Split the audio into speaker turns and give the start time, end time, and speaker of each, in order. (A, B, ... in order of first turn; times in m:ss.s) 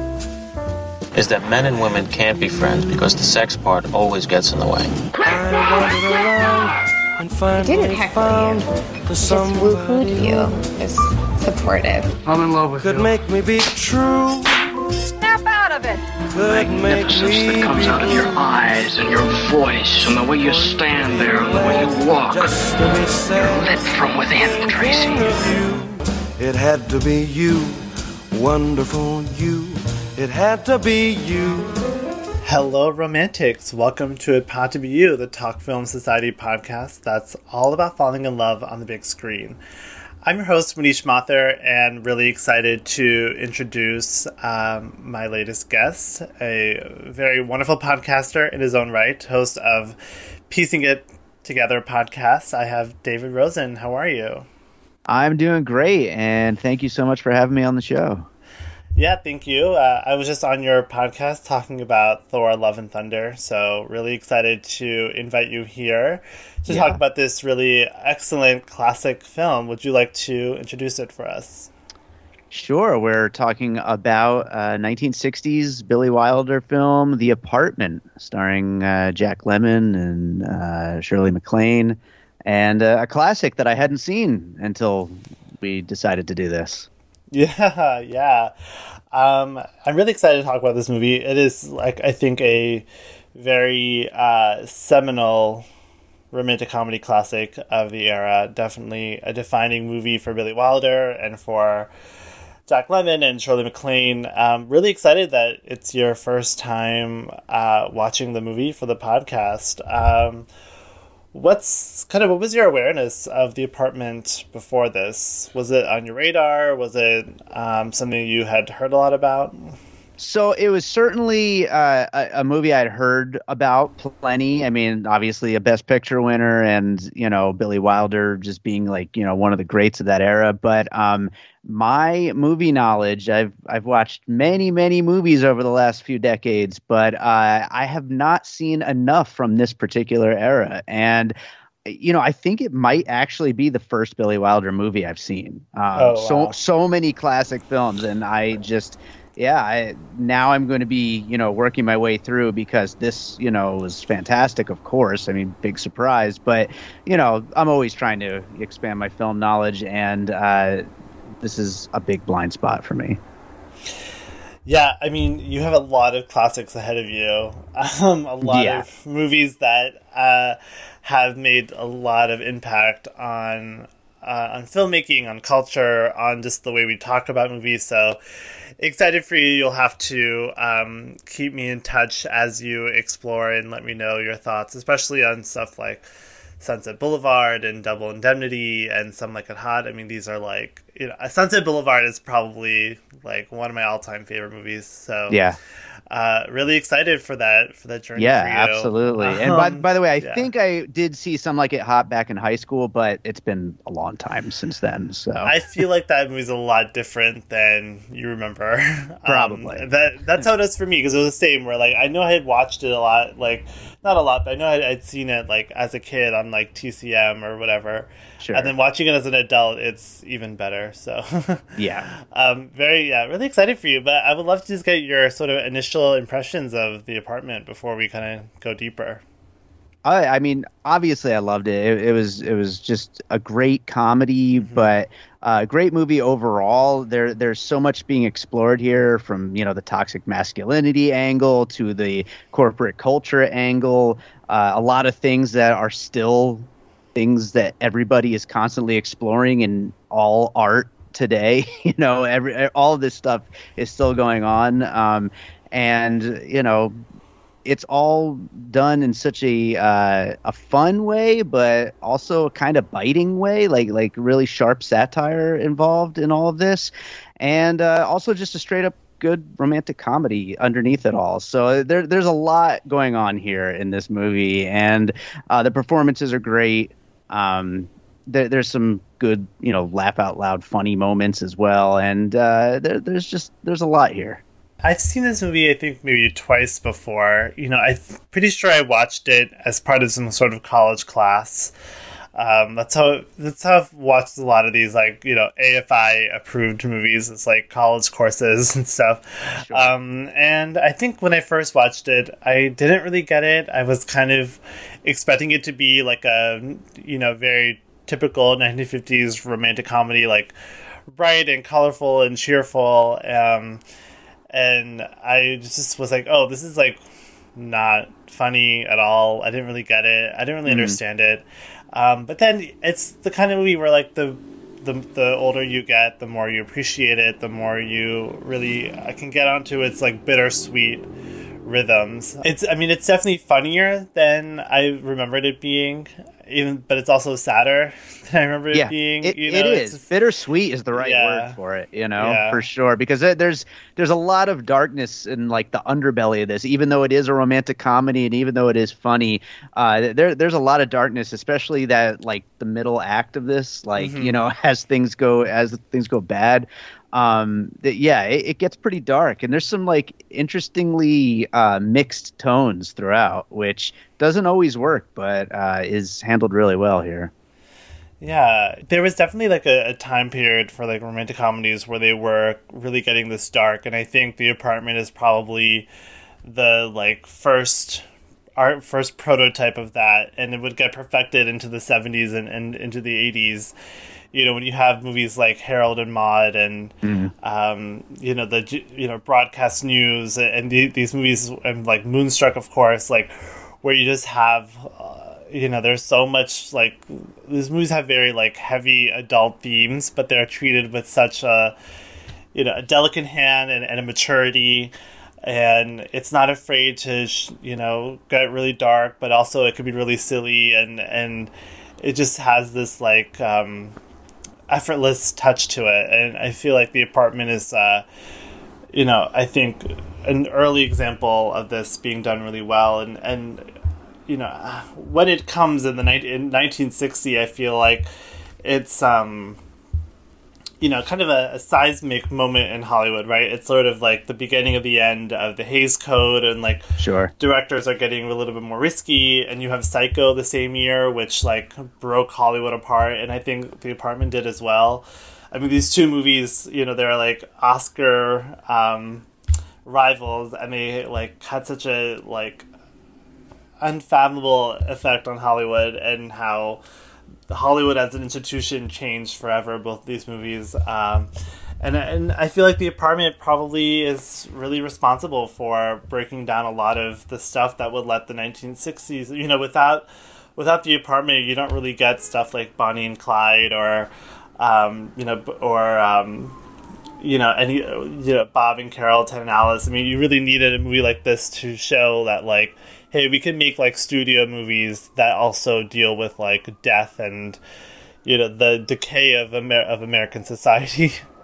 0:01.2-0:05.0 A
0:05.2-0:10.6 B
0:07.5-0:08.7 C
0:09.2-0:12.2 C
0:12.8-0:14.6 B
0:15.2-0:16.0 C
0:16.3-0:19.3 B
0:16.8-0:22.5 D
0:20.1-0:27.8 B
0:23.4-0:25.4 D
0:28.3-0:31.8 B
0:32.4-0:39.6 E
0:40.2-0:50.0 E
0:50.5-0:54.5 E
0:55.1-0:58.3 F
0:59.0-1:11.7 E
1:06.7-1:07.0 F
1:12.5-1:26.9 F
1:27.3-1:28.5 E
1:29.1-1:35.6 E
1:36.3-1:41.9 E
1:42.7-1:50.5 E
1:51.3-1:59.7 E
2:00.2-2:40.8 F
2:26.0-2:26.6 E
2:41.4-2:43.2 F
2:44.7-2:58.2 E
2:48.4-2:48.8 F
2:58.8-3:06.0 E
3:06.6-3:15.4 E
3:15.3-3:15.6 F
3:16.1-3:20.5 E
3:18.2-3:25.5 F
3:25.4-3:49.2 E
3:29.3-3:29.8 F
3:38.4-3:38.7 F
3:41.8-3:42.1 F
3:50.0-4:17.0 F
3:54.6-3:54.9 E
4:17.6-4:44.4 F
4:44.8-4:51.7 E
4:52.4-5:10.5 E
4:59.6-4:59.9 F
5:11.1-5:13.8 E
5:14.5-5:17.0 E
5:17.6-5:31.1 E
5:20.7-5:21.0 F
5:31.6-5:40.1 E
5:38.7-6:07.3 F
5:40.9-5:41.6 E
5:42.2-5:42.6 E
5:54.0-5:54.4 E
6:08.2-6:15.9 E
6:16.4-6:18.0 E
6:18.6-6:23.7 E
6:24.3-6:41.8 E
6:27.0-6:27.3 F
6:42.5-6:54.0 E
6:54.7-6:58.0 E
6:58.9-7:03.7 E
7:04.3-7:08.1 E
7:08.6-7:09.6 E
7:10.8-7:16.8 E
7:17.0-7:17.3 F
7:17.4-7:29.3 E
7:29.8-7:32.7 E
7:33.8-7:36.8 E
7:37.5-7:41.3 E
7:41.8-7:56.6 E
7:57.2-8:07.6 E
8:08.2-8:11.2 E